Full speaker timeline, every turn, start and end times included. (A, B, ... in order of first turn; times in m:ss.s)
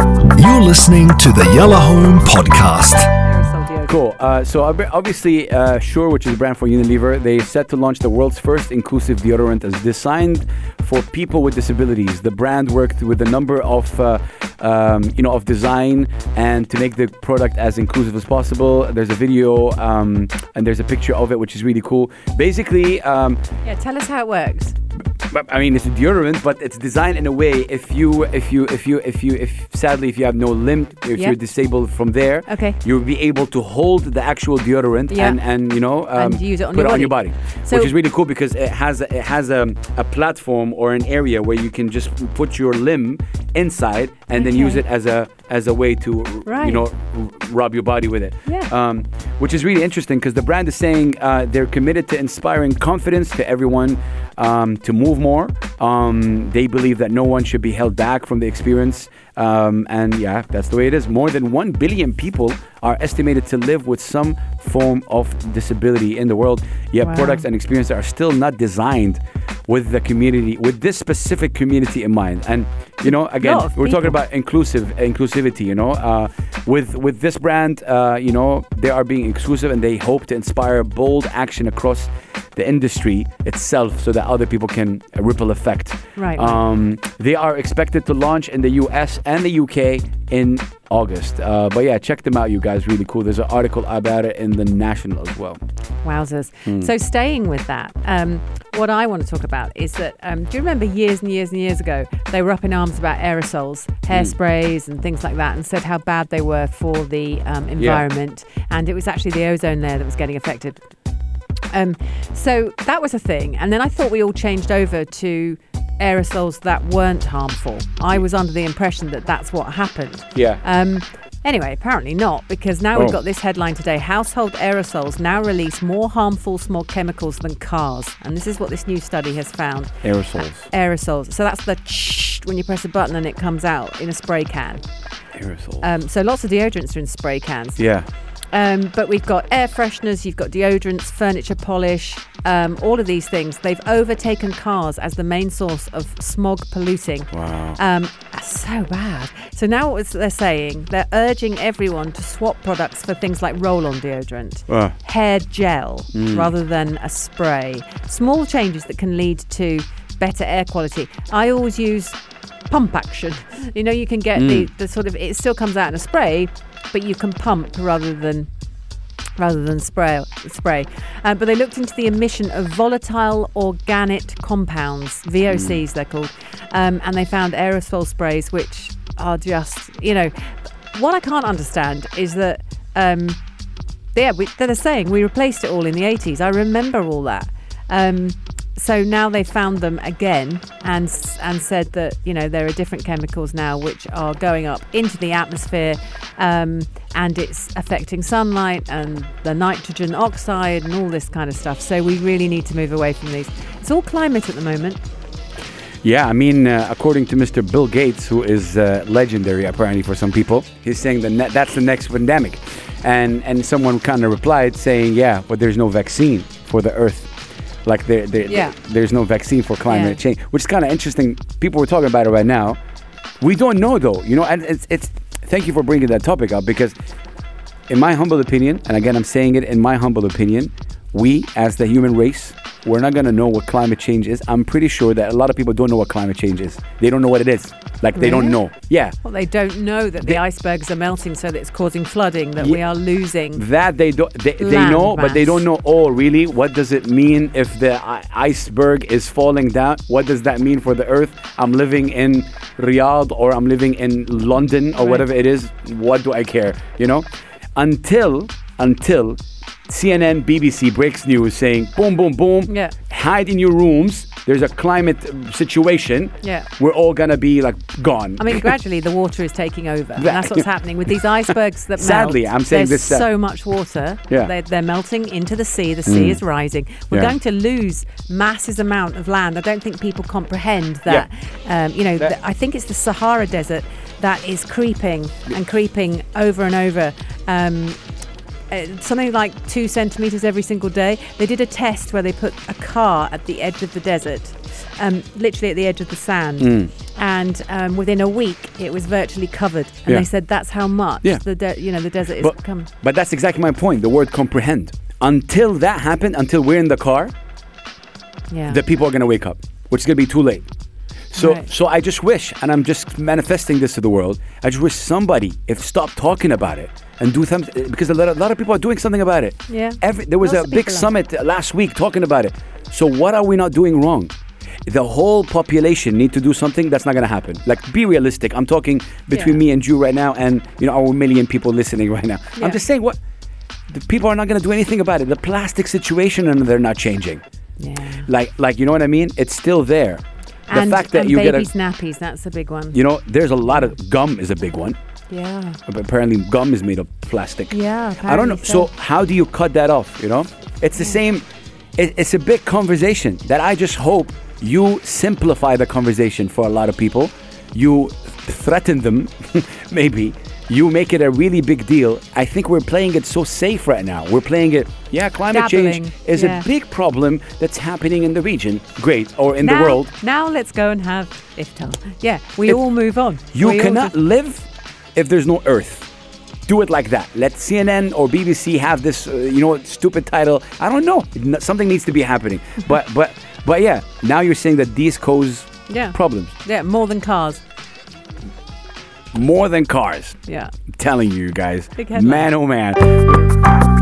0:00.3-0:03.0 A
0:03.2-0:04.0 B
0:03.9-0:23.4 C
0:23.6-0:24.7 B
0:25.3-1:35.6 C
0:32.4-0:32.8 B
0:35.1-0:37.9 B
0:44.3-0:44.8 B
0:46.4-0:46.8 B
1:07.0-1:07.4 B
1:13.0-1:14.2 B
1:26.2-1:26.6 B
1:36.0-1:50.9 B
1:51.7-2:14.8 B
2:00.3-2:00.6 C
2:10.0-2:10.7 C
2:15.3-2:15.8 C
2:15.8-2:17.8 B
2:17.8-2:18.0 C
2:18.5-2:42.2 B
2:27.3-2:27.8 C
2:34.7-2:35.0 C
2:36.1-2:36.5 C
2:42.7-2:48.5 B
2:44.4-2:44.7 C
2:49.4-3:03.4 B
2:55.5-2:55.8 C
3:04.1-3:25.0 B
3:26.0-3:37.3 C
3:37.8-3:42.8 C
3:38.5-3:38.8 B
3:39.8-3:40.2 B
3:43.4-3:46.9 C
3:47.9-3:59.2 C
3:58.1-3:58.6 B
3:59.2-4:03.6 B
4:03.6-4:28.7 C
4:04.6-4:05.6 B
4:14.9-4:15.2 B
4:22.7-4:22.9 B
4:26.4-4:26.7 B
4:28.4-4:48.0 B
4:30.2-4:30.6 C
4:32.0-4:33.3 C
4:36.1-4:36.4 C
4:48.7-5:02.9 B
4:56.6-4:56.9 C
5:02.4-5:07.3 C
5:08.5-5:08.8 B
5:08.7-5:10.6 C
5:11.3-5:24.3 C
5:11.4-5:11.7 B
5:19.7-5:21.1 B
5:24.8-5:33.2 C
5:29.3-5:29.6 B
5:33.9-5:37.4 C
5:37.8-5:38.2 B
5:38.2-5:41.7 C
5:40.7-5:43.0 B
5:42.9-5:45.0 C
5:45.3-5:45.8 B
5:45.9-5:51.4 C
5:47.7-5:48.9 B
5:52.0-6:10.1 C
6:05.5-6:06.6 B
6:09.6-6:14.1 B
6:13.5-6:16.1 C
6:16.7-6:26.5 C
6:25.9-6:27.6 B
6:29.3-6:30.4 C
6:30.4-6:30.7 B
6:30.9-6:33.5 C
6:32.0-6:32.5 B